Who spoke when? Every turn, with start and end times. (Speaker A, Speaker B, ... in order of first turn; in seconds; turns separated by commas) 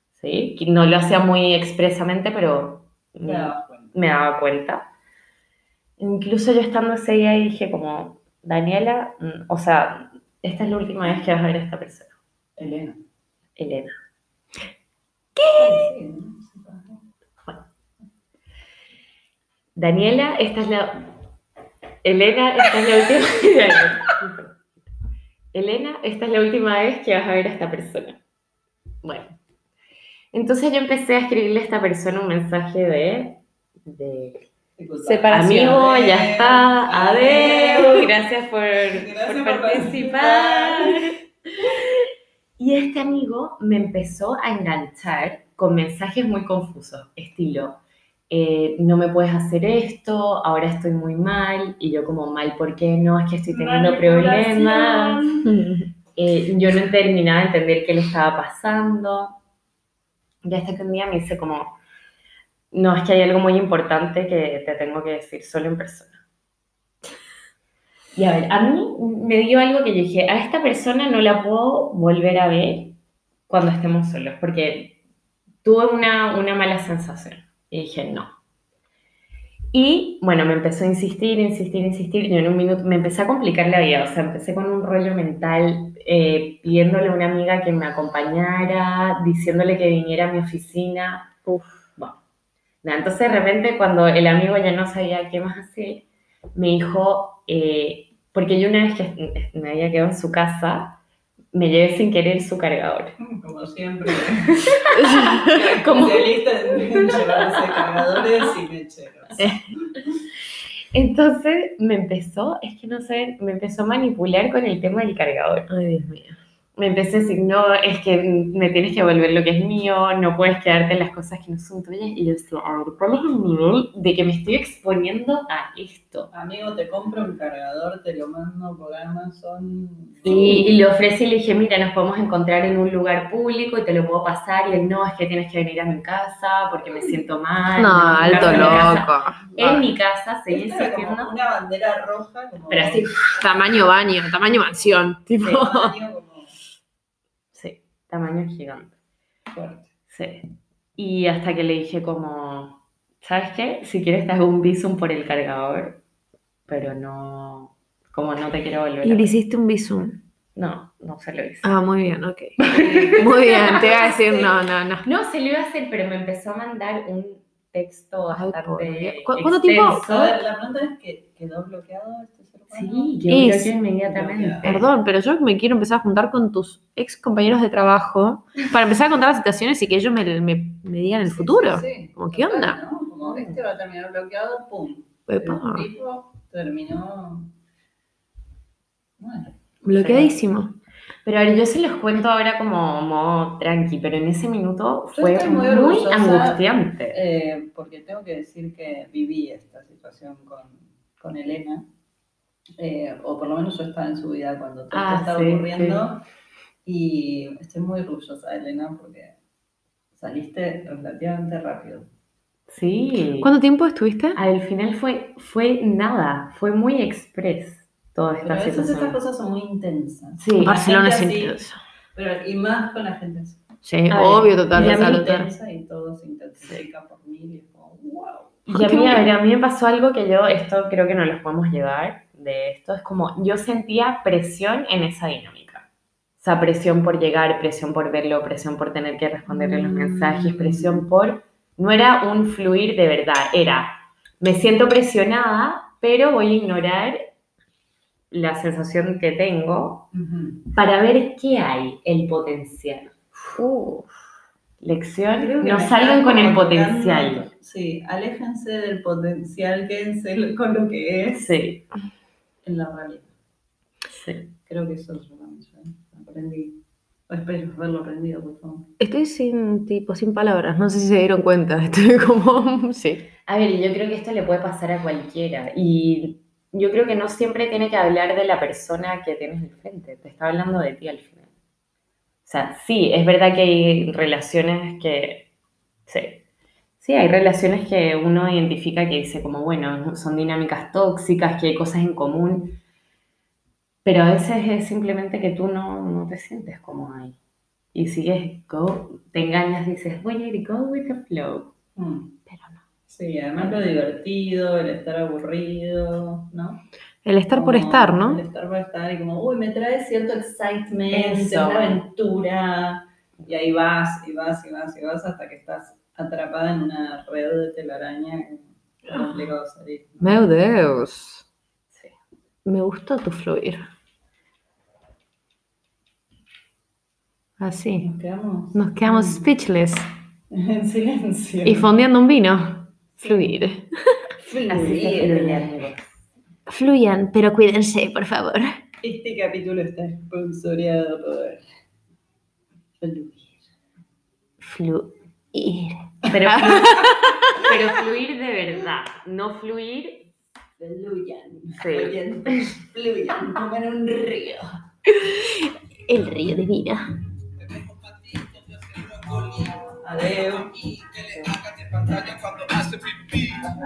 Speaker A: 0.2-4.9, Speaker B: 3.2-3.9, Speaker A: 6.0-12.1, Speaker B: 12.6-13.0, Speaker A: 13.6-13.9, Speaker C: 15.4-15.9, Speaker B: 15.5-17.0, Speaker A: 19.8-21.2, Speaker A: 22.0-24.5, Speaker A: 25.5-28.2, Speaker A: 29.0-29.4, Speaker A: 30.3-34.5, Speaker B: 34.8-38.1, Speaker C: 35.0-35.8, Speaker A: 35.3-42.0, Speaker B: 38.9-41.1, Speaker A: 42.6-55.2, Speaker B: 53.5-55.5, Speaker C: 55.4-55.9, Speaker A: 56.1-59.4, Speaker A: 60.4-61.8, Speaker A: 62.7-66.2, Speaker A: 68.1-73.0, Speaker A: 73.5-75.0, Speaker A: 75.6-78.3, Speaker A: 79.7-91.3, Speaker C: 91.5-91.9, Speaker A: 92.8-101.0, Speaker A: 101.5-103.2, Speaker B: 103.2-109.9, Speaker C: 104.9-105.5, Speaker A: 105.8-106.4, Speaker C: 109.4-109.7, Speaker A: 110.9-115.7, Speaker C: 115.7-116.4, Speaker A: 116.8-126.3, Speaker B: 126.3-130.5, Speaker C: 130.2-130.8, Speaker A: 130.2-141.3, Speaker C: 137.8-139.9, Speaker B: 138.2-139.0, Speaker B: 140.5-143.1, Speaker C: 142.8-145.9, Speaker B: 145.4-146.5, Speaker A: 147.5-148.9, Speaker B: 149.5-149.9, Speaker A: 150.1-150.4, Speaker A: 151.0-156.0, Speaker A: 156.7-159.3, Speaker C: 159.0-160.2, Speaker A: 160.5-161.7, Speaker C: 161.6-165.1, Speaker A: 162.6-164.5, Speaker B: 162.7-163.3, Speaker A: 165.0-170.4, Speaker C: 168.3-170.2, Speaker B: 169.9-173.2, Speaker A: 172.7-174.9, Speaker C: 173.3-173.8, Speaker B: 174.0-174.8, Speaker C: 174.6-182.8, Speaker B: 181.2-187.5, Speaker A: 183.2-183.6, Speaker C: 185.3-185.9, Speaker B: 189.2-190.5, Speaker C: 189.8-190.8, Speaker A: 190.0-190.3, Speaker A: 191.2-197.2, Speaker B: 195.1-201.9, Speaker B: 202.8-206.2, Speaker A: 204.9-206.0, Speaker B: 206.8-209.3, Speaker B: 210.1-212.1, Speaker A: 212.7-213.5, Speaker C: 213.4-214.4, Speaker A: 214.3-219.2, Speaker B: 218.4-221.6, Speaker A: 220.4-220.8, Speaker C: 220.6-221.8, Speaker B: 222.1-223.6, Speaker C: 223.8-225.5, Speaker A: 224.1-225.2, Speaker B: 224.6-228.6, Speaker A: 228.7-235.9, Speaker C: 228.7-229.2, Speaker A: 236.4-247.2, Speaker B: 239.5-241.1, Speaker A: 248.3-250.1, Speaker B: 250.1-250.7, Speaker A: 250.7-253.1, Speaker C: 253.6-254.1, Speaker A: 254.8-257.5, Speaker B: 255.4-261.5, Speaker A: 261.3-261.9, Speaker B: 262.6-263.3, Speaker A: 264.1-264.5, Speaker B: 264.6-268.9, Speaker C: 269.0-273.3, Speaker A: 273.4-281.5, Speaker A: 282.4-285.5, Speaker A: 286.1-286.4, Speaker A: 287.0-292.8, Speaker A: 294.0-297.4, Speaker A: 297.9-301.7, Speaker B: 301.9-302.4, Speaker C: 302.5-302.8, Speaker B: 303.1-306.8, Speaker C: 307.2-308.4, Speaker B: 307.5-320.4, Speaker A: 311.1-312.0, Speaker C: 320.2-321.4, Speaker C: 322.6-323.9, Speaker C: 327.6-328.1, Speaker B: 328.0-329.5, Speaker C: 328.7-330.1, Speaker B: 330.5-331.9, Speaker C: 331.6-334.1, Speaker B: 333.2-333.5, Speaker B: 334.4-335.7, Speaker A: 334.7-336.1, Speaker C: 336.7-338.8, Speaker B: 339.0-341.6, Speaker B: 343.0-343.7, Speaker C: 344.6-347.6, Speaker A: 346.3-350.3, Speaker B: 346.6-346.9, Speaker B: 350.8-354.8, Speaker A: 351.8-352.2, Speaker C: 355.1-357.0, Speaker D: 357.6-363.7, Speaker B: 360.0-360.7